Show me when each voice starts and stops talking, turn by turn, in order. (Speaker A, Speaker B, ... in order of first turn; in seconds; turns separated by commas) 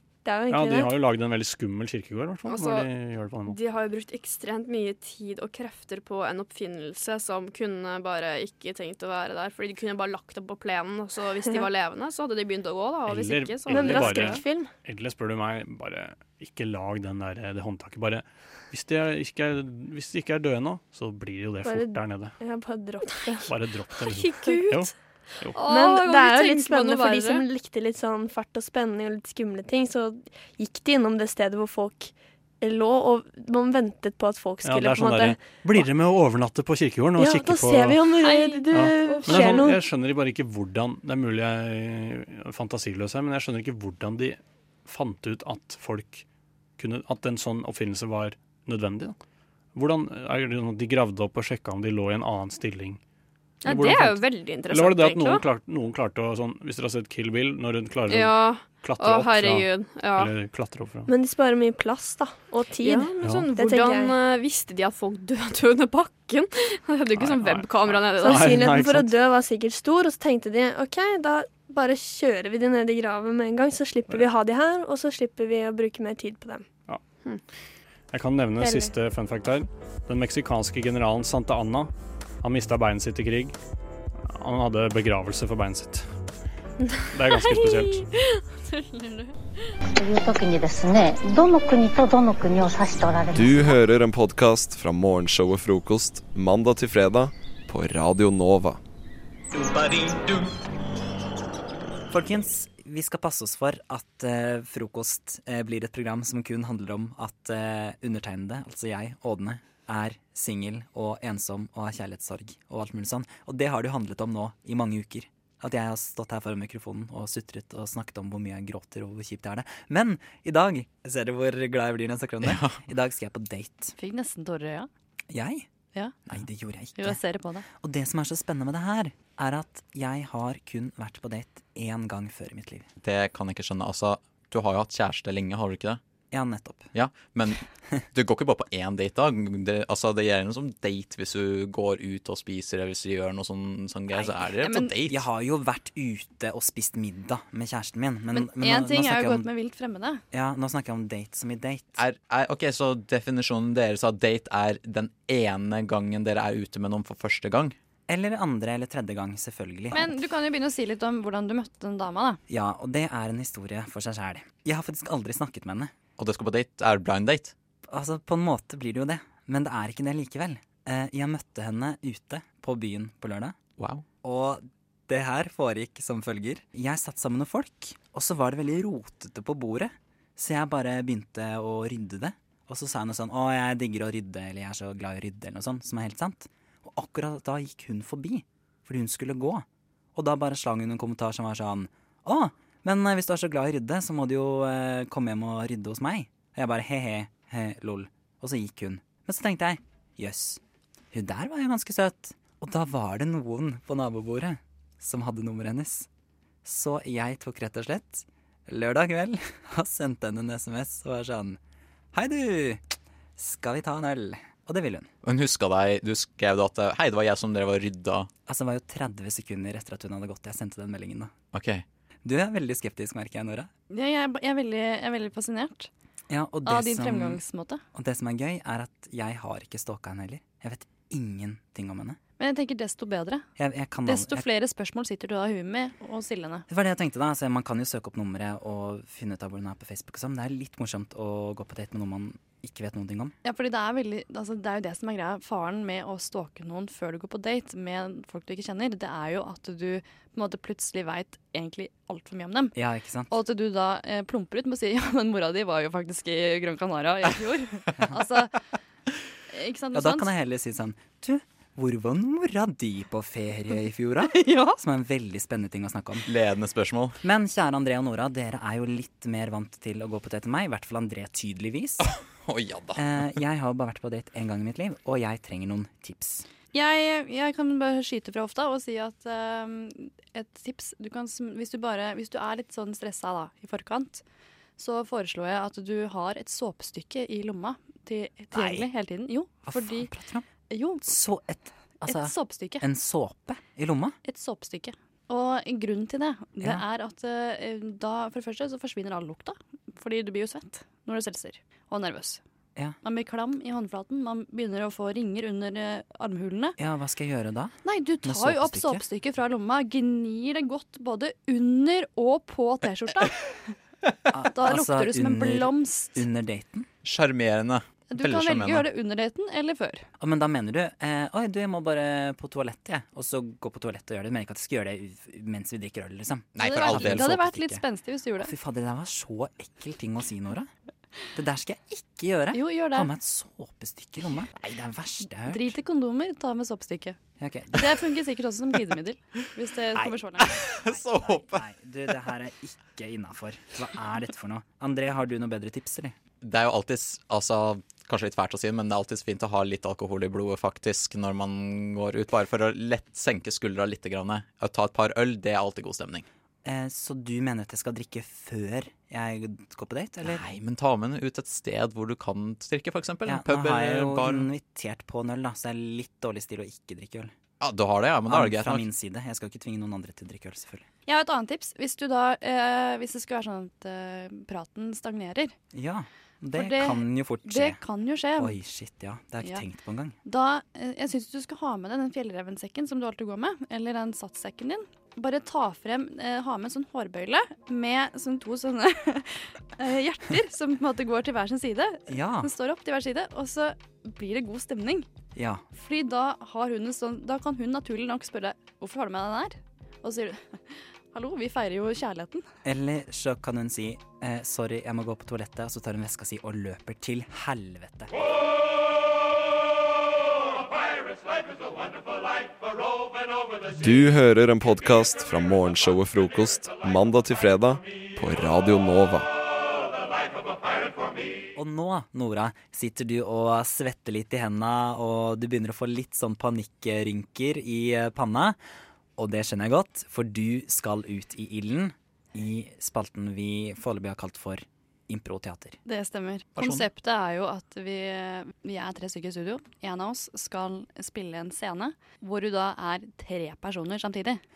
Speaker A: 0.2-0.9, Speaker B: 0.5-3.5, Speaker C: 2.5-2.9, Speaker C: 3.5-14.4, Speaker B: 13.1-22.3, Speaker A: 13.7-14.7, Speaker A: 21.6-23.5, Speaker B: 23.5-25.6, Speaker C: 24.3-24.8, Speaker C: 25.6-27.4, Speaker A: 25.6-35.8, Speaker B: 34.6-38.0, Speaker A: 37.2-39.8, Speaker C: 38.2-39.7, Speaker B: 38.7-46.2, Speaker B: 46.8-49.1, Speaker B: 49.8-53.0, Speaker C: 53.6-55.4, Speaker B: 53.6-61.1, Speaker C: 58.1-60.3, Speaker A: 61.1-64.1, Speaker C: 62.8-68.6, Speaker B: 63.2-63.5, Speaker B: 67.2-69.1, Speaker A: 68.2-76.7, Speaker B: 78.1-81.9, Speaker A: 78.6-78.9, Speaker B: 82.4-83.5, Speaker B: 84.3-86.1, Speaker B: 87.1-88.1, Speaker C: 87.3-89.3, Speaker D: 89.9-93.8, Speaker E: 93.3-98.8, Speaker F: 102.1-123.9, Speaker G: 122.4-122.8, Speaker H: 124.0-124.9, Speaker F: 125.3-125.7, Speaker F: 126.3-127.2, Speaker H: 126.9-127.6, Speaker F: 127.7-132.9, Speaker G: 133.0-136.0, Speaker F: 136.3-136.9, Speaker G: 136.9-137.6, Speaker G: 138.1-145.2, Speaker H: 144.2-145.0, Speaker F: 145.0-149.5, Speaker H: 148.3-150.2, Speaker F: 150.3-151.9, Speaker G: 151.9-157.8, Speaker F: 158.1-160.2, Speaker H: 159.9-162.4, Speaker F: 162.5-165.9, Speaker G: 166.2-167.5, Speaker F: 167.8-173.6, Speaker G: 173.8-174.0, Speaker F: 174.2-200.6, Speaker F: 201.1-206.1, Speaker F: 206.6-211.6, Speaker F: 212.1-212.8, Speaker F: 213.4-215.1, Speaker G: 215.2-218.3, Speaker F: 218.4-221.3, Speaker G: 221.5-221.8, Speaker F: 222.2-223.7, Speaker H: 223.9-225.9, Speaker F: 226.3-227.4, Speaker H: 226.6-227.8, Speaker F: 227.9-232.2, Speaker H: 232.4-233.5, Speaker F: 233.6-234.4, Speaker H: 234.0-236.7, Speaker F: 236.7-243.3, Speaker H: 243.4-252.8, Speaker F: 252.8-253.3, Speaker H: 253.3-258.5, Speaker H: 259.5-260.3, Speaker F: 259.9-266.3, Speaker H: 264.2-264.8, Speaker G: 266.2-267.2, Speaker F: 267.2-272.0, Speaker G: 272.0-273.1, Speaker F: 272.9-276.4, Speaker H: 276.7-284.2, Speaker H: 284.8-290.1, Speaker F: 288.5-288.8, Speaker F: 289.6-290.5, Speaker H: 290.7-291.1, Speaker F: 291.0-294.2, Speaker H: 292.0-292.8, Speaker H: 294.2-302.4, Speaker H: 303.0-306.8, Speaker F: 306.8-309.0, Speaker H: 307.8-313.7, Speaker F: 314.3-316.9, Speaker H: 314.5-316.2, Speaker G: 317.0-318.9, Speaker H: 318.1-320.1, Speaker F: 320.2-327.8, Speaker G: 326.5-327.3, Speaker H: 326.6-328.5, Speaker F: 328.4-330.7, Speaker F: 331.3-335.8, Speaker H: 332.5-333.1, Speaker H: 335.5-337.2, Speaker F: 337.4-338.0, Speaker H: 337.7-340.6, Speaker F: 339.9-346.2, Speaker G: 340.7-341.6, Speaker G: 346.4-356.2, Speaker F: 356.6-360.5, Speaker G: 360.2-364.5, Speaker F: 363.2-367.3, Speaker G: 367.6-368.9, Speaker F: 368.2-370.9, Speaker H: 371.1-375.5, Speaker F: 375.7-377.8, Speaker H: 376.5-378.5, Speaker F: 378.4-380.1, Speaker H: 380.2-395.1, Speaker F: 392.1-392.5, Speaker F: 395.3-395.6, Speaker H: 395.7-402.5, Speaker F: 402.6-408.1, Speaker E: 413.7-419.3, Speaker F: 421.5-428.6, Speaker F: 429.2-435.8, Speaker H: 435.9-444.4, Speaker G: 436.6-436.8